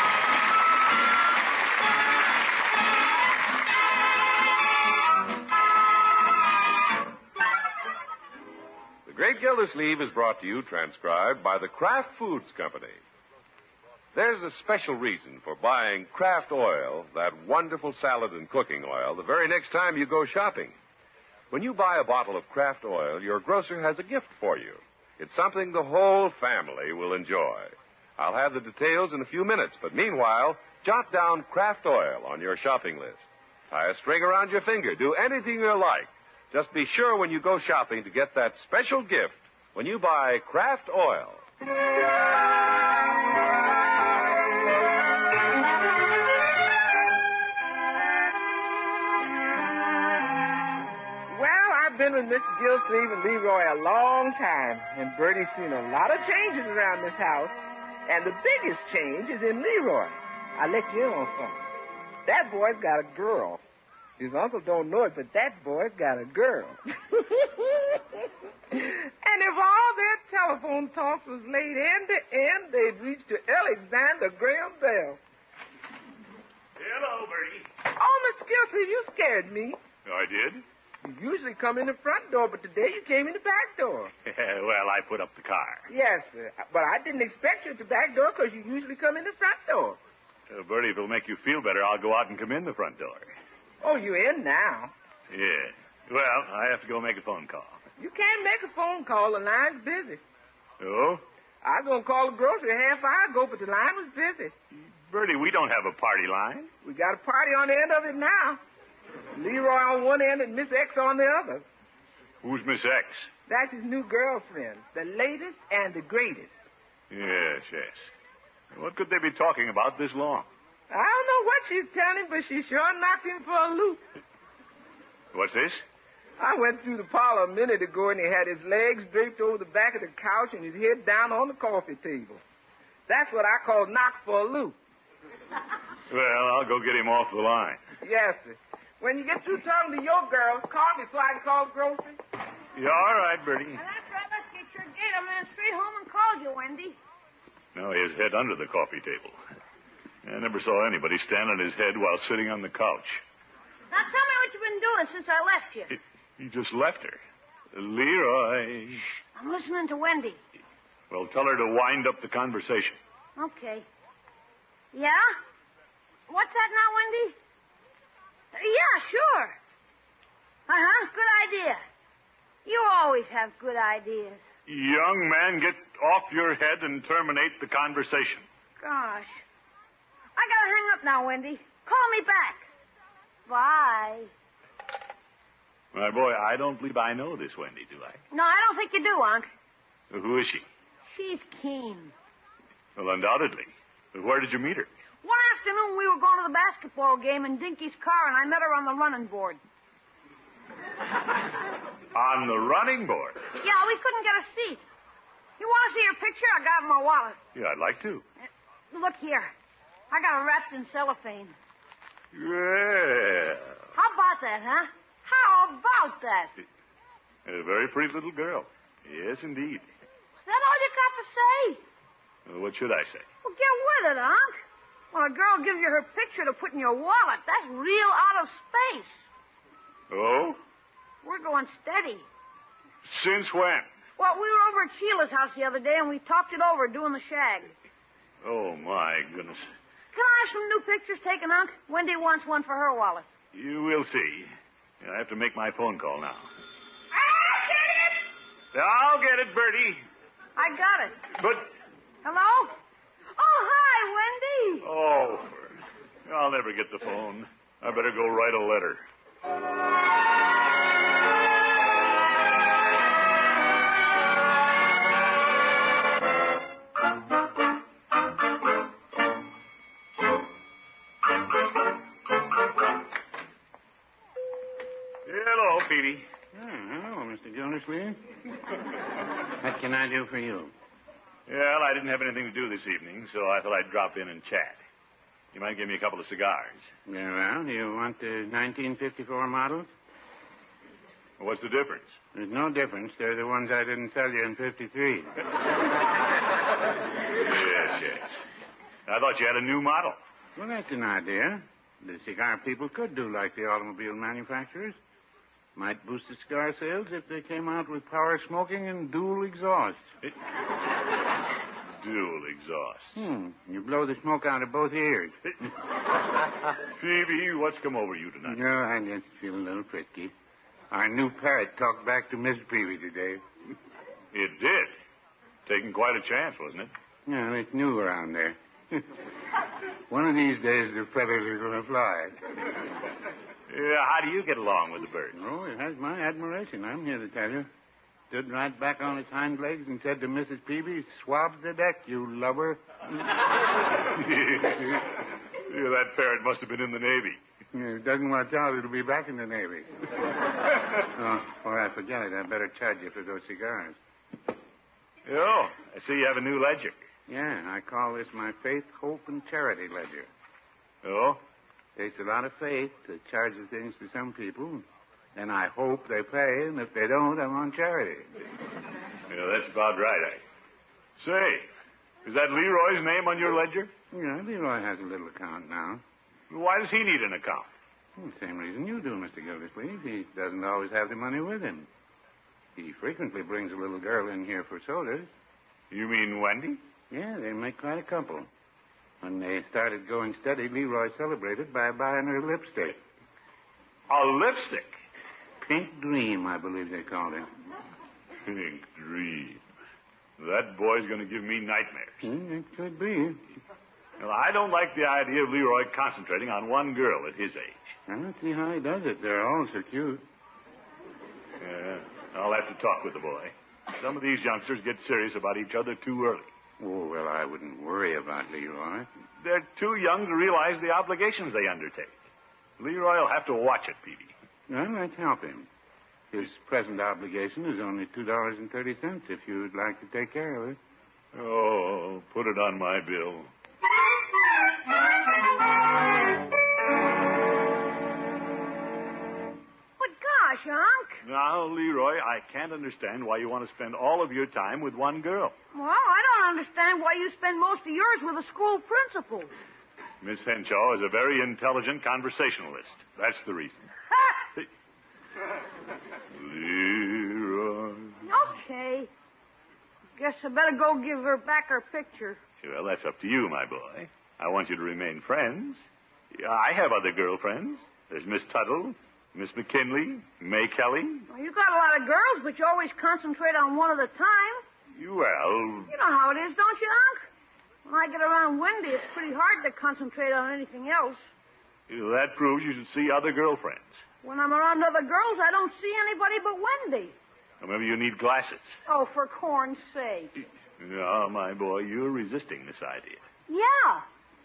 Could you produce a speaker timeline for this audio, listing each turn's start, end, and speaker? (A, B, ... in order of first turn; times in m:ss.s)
0:09.0-0:13.0 A
0:14.1-0:20.8 A
0:21.5-0:41.4 A
0:51.3-0:57.5 B
0:58.1-1:01.6 B
1:02.2-1:03.6 B
1:04.2-1:15.2 B
1:16.8-1:17.7 C
1:18.0-1:19.8 B
1:20.0-1:20.6 C
1:21.0-1:24.1 B
1:24.2-1:25.9 C
1:25.9-1:30.0 B
1:30.5-1:33.3 C
1:33.8-1:34.9 B
1:35.3-1:37.8 C
1:38.0-1:40.2 B
1:40.8-1:41.2 C
1:41.6-1:44.5 B
1:44.7-1:46.7 C
1:46.8-1:48.6 B
1:49.3-1:51.6 B
1:52.4-1:53.3 C
1:53.5-1:56.5 B
1:57.1-1:58.1 C
1:58.7-2:00.5 C
2:00.9-2:04.0 B
2:05.3-2:05.8 C
2:06.4-2:12.4 B
2:13.1-2:14.7 B
2:16.1-2:17.8 C
2:18.0-2:22.2 B
2:22.8-2:23.8 C
2:23.7-2:27.0 D
2:27.7-2:29.4 C
2:30.2-2:33.2 C
2:33.9-2:35.9 D
2:35.9-2:37.2 C
2:37.7-2:39.0 C
2:39.3-2:40.4 D
2:41.1-2:43.0 C
2:43.4-2:43.8 D
2:44.9-2:45.3 D
2:46.3-2:47.4 D
2:48.5-2:49.6 D
2:50.7-2:51.8 D
2:52.6-2:54.4 D
2:54.7-2:58.4 C
2:58.8-2:59.4 D
3:00.4-3:02.6 D
3:03.5-3:04.3 D
3:05.9-3:08.2 C
3:08.3-3:09.5 D
3:10.1-3:10.6 C
3:11.1-3:12.1 D
3:13.0-3:14.9 C
3:15.2-3:19.6 D
3:22.1-3:23.5 C
3:23.6-3:24.8 D
3:25.6-3:27.4 D
3:27.5-3:28.2 C
3:28.9-3:29.5 D
3:30.1-3:31.5 D
3:32.3-3:33.8 C
3:33.9-3:36.5 D
3:37.4-3:39.9 C
3:40.4-3:41.8 D
3:42.4-3:43.3 C
3:43.4-3:44.6 D
3:45.1-3:49.2 D
3:50.1-3:50.6 C
3:51.2-3:52.2 D
3:53.1-3:53.9 C
3:54.2-3:57.7 D
3:58.4-3:59.7 C
4:00.1-4:03.3 D
4:03.5-4:06.5 C
4:07.2-4:08.2 D
4:08.7-4:10.0 C
4:10.6-4:11.3 D
4:11.3-4:11.7 C
4:12.2-4:12.8 D
4:13.3-4:14.9 D
4:14.8-4:19.0 C
4:35.2-4:36.3 C
4:36.5-4:38.2 E
4:39.4-4:40.7 E
4:41.5-4:44.8 C
4:45.5-4:46.9 C
4:47.0-4:49.9 E
4:51.4-4:52.2 C
4:52.3-4:55.3 E
4:57.4-4:58.4 C
4:59.0-5:00.2 C
5:00.6-5:05.0 E
5:05.7-5:10.0 E
5:12.0-5:13.1 C
5:13.1-5:15.4 E
5:16.8-5:18.6 C
5:18.4-5:20.3 E
5:20.9-5:23.4 E
5:24.3-5:24.9 C
5:25.6-5:26.9 C
5:27.2-5:29.1 E
5:30.1-5:32.3 E
5:33.7-5:35.4 C
5:35.3-5:37.7 E
5:38.3-5:43.4 E
5:44.0-5:47.4 C
5:47.7-5:50.1 E
5:50.8-5:54.0 E
5:55.2-5:57.0 C
5:57.3-6:00.3 E
6:01.0-6:01.4 C
6:02.0-6:08.4 E
6:09.3-6:10.4 C
6:11.2-6:11.7 C
6:12.2-6:13.9 C
6:14.1-6:16.0 E
6:16.5-6:17.7 C
6:18.2-6:21.9 E
6:22.8-6:25.3 E
6:25.9-6:26.8 C
6:27.1-6:28.5 E
6:29.2-6:33.0 E
6:34.1-6:35.0 C
6:35.6-6:37.5 E
6:38.4-6:39.6 C
6:40.4-6:42.2 C
6:42.2-6:43.4 E
6:44.2-6:47.9 C
6:48.1-6:50.2 E
6:51.6-6:56.5 C
6:56.8-6:59.1 E
6:59.4-7:02.2 C
7:02.8-7:04.3 C
7:04.7-7:05.7 E
7:06.3-7:10.8 E
7:11.3-7:13.5 C
7:20.0-7:21.2 D
7:21.2-7:25.5 C
7:25.7-7:29.5 D
7:30.2-7:33.9 C
7:36.3-7:38.2 C
7:38.2-7:39.1 D
7:40.2-7:42.4 D
7:42.6-7:45.8 C
7:46.3-7:51.2 C
7:51.3-7:54.6 D
7:54.9-7:55.9 C
7:55.9-7:57.2 D
7:57.8-8:01.2 D
8:01.9-8:04.0 C
8:04.2-8:07.2 D
8:07.6-8:08.7 C
8:08.9-8:10.3 D
8:10.8-8:13.2 C
8:13.5-8:14.0 D